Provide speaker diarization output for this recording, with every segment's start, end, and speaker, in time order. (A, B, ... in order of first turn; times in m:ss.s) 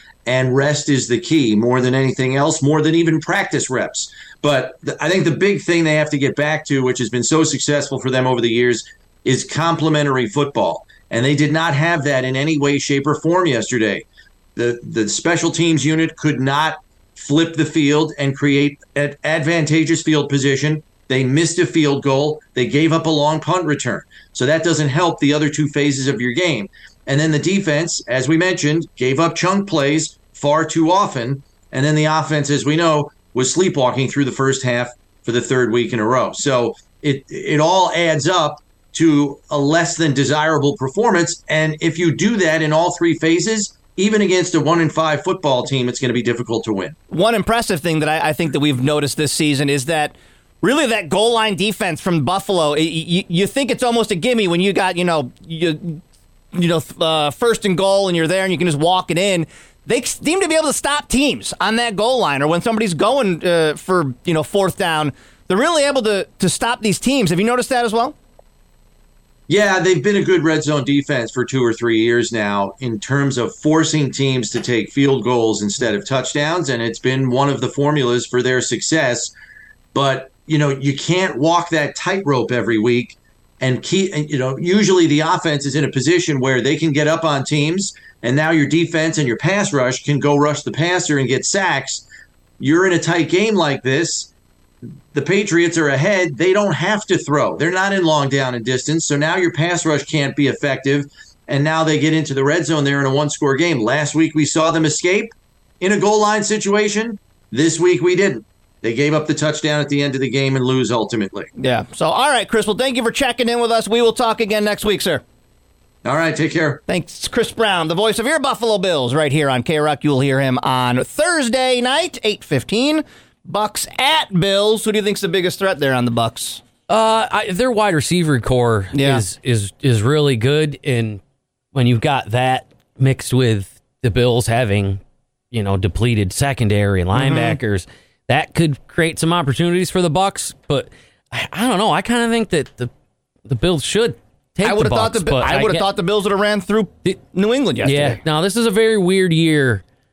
0:00.3-0:47.0 A
0:47.1-0:56.0 B
0:56.5-1:08.2 B
1:09.5-1:19.3 A
1:19.9-1:32.1 A
1:32.6-1:34.3 A
1:35.1-1:51.5 A
1:51.6-1:55.2 B
1:56.0-1:56.8 A
1:56.9-2:06.6 B
2:06.9-2:11.2 C
2:08.9-2:09.2 B
2:11.7-2:15.0 C
2:15.5-2:22.9 C
2:17.1-2:17.6 B
2:23.5-2:25.9 C
2:24.6-2:28.2 B
2:27.8-2:29.8 C